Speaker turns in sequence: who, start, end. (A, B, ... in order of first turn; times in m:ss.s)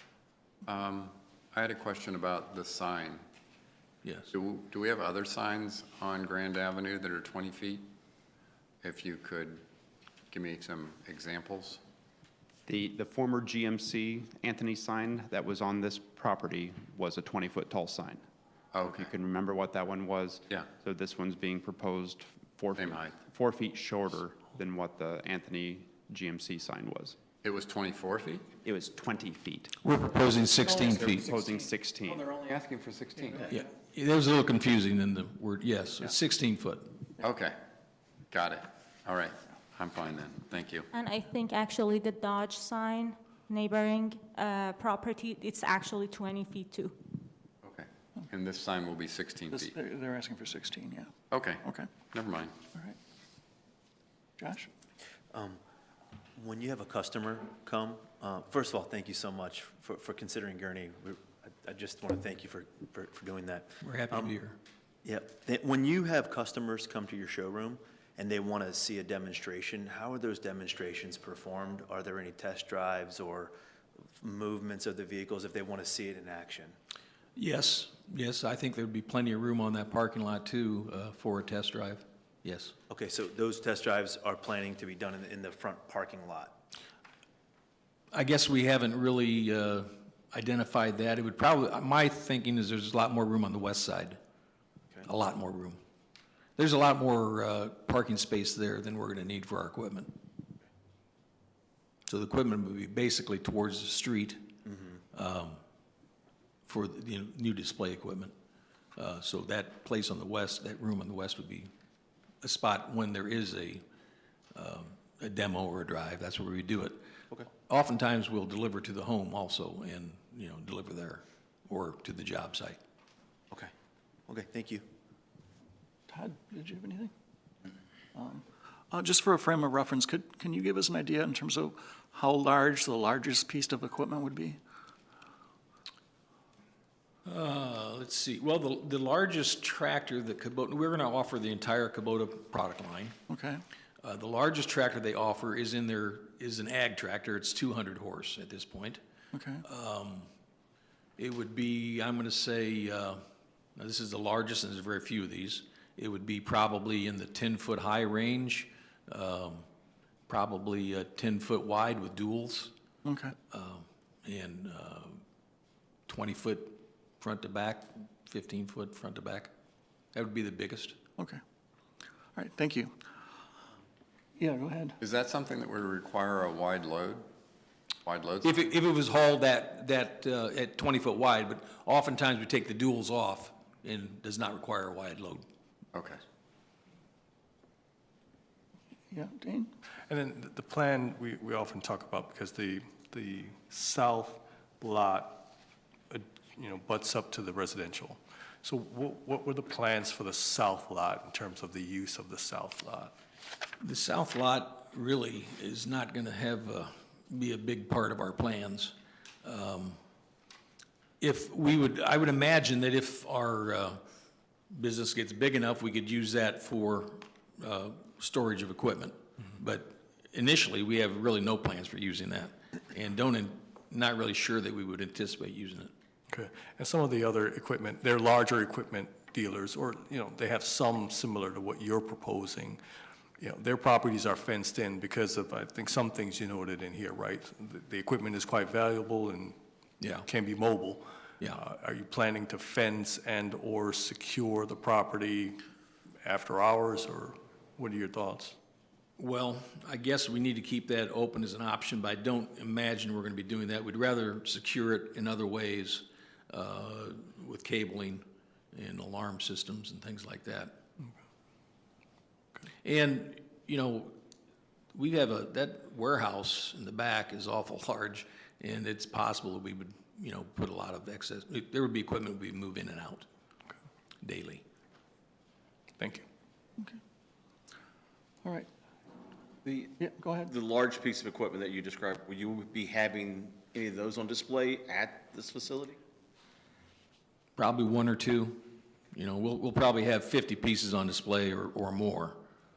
0:00.6-0:03.2 A
0:04.0-0:04.3 B
0:04.3-0:07.9 A
0:08.8-0:09.6 A
0:10.3-0:11.8 A
0:12.7-0:18.2 C
0:18.7-0:19.1 A
0:18.8-0:27.2 C
0:22.8-0:23.2 A
0:27.4-0:28.5 A
0:28.6-0:29.7 C
0:29.8-0:31.3 B
0:30.8-0:32.3 C
0:32.1-0:33.5 A
0:33.5-0:36.9 B
0:37.2-0:37.6 A
0:38.3-0:40.9 A
0:40.9-0:47.0 D
0:47.6-0:49.8 A
0:49.5-0:51.1 E
0:51.3-0:52.6 A
0:51.6-0:51.9 E
0:54.4-0:54.7 E
0:55.3-0:55.6 F
0:56.4-1:04.4 F
1:03.8-1:04.6 B
1:05.0-1:13.5 F
1:14.2-1:16.8 F
1:17.4-1:22.8 B
1:22.9-1:26.6 F
1:28.1-1:34.2 B
1:35.0-1:35.8 B
1:36.6-1:40.1 B
1:42.1-1:44.5 B
1:45.1-1:45.6 B
1:46.7-1:48.3 B
1:49.0-1:51.7 B
1:52.4-1:53.8 B
1:54.5-1:57.0 B
1:57.7-2:02.8 B
2:04.3-2:04.8 F
2:06.1-2:07.1 E
2:08.2-2:14.6 E
2:17.2-2:23.2 B
2:23.3-2:23.6 E
2:24.0-2:29.0 B
2:29.3-2:29.6 E
2:29.6-2:30.3 B
2:31.2-2:33.2 B
2:33.8-2:39.6 B
2:40.3-2:42.7 B
2:43.0-2:43.3 E
2:43.5-2:45.2 B
2:46.1-2:49.5 B
2:50.1-2:51.0 B
2:52.4-2:52.9 E
2:54.4-2:55.0 E
2:55.0-2:57.3 A
2:58.0-2:58.5 A
2:58.4-3:05.4 B
3:05.9-3:06.2 A
3:09.1-3:09.7 E
3:10.1-3:15.5 G
3:16.1-3:23.2 G
3:23.8-3:30.0 B
3:31.2-3:34.0 B
3:34.7-3:45.9 B
3:46.3-3:52.8 G
3:53.4-3:59.6 G
4:00.0-4:00.3 B
4:00.2-4:05.6 G
4:06.2-4:08.6 G
4:09.2-4:20.8 B
4:22.8-4:24.2 B
4:24.9-4:33.3 B
4:34.2-4:34.6 B
4:36.0-4:36.2 G
4:39.6-4:46.0 H
4:40.0-4:40.5 E
4:47.6-4:52.4 B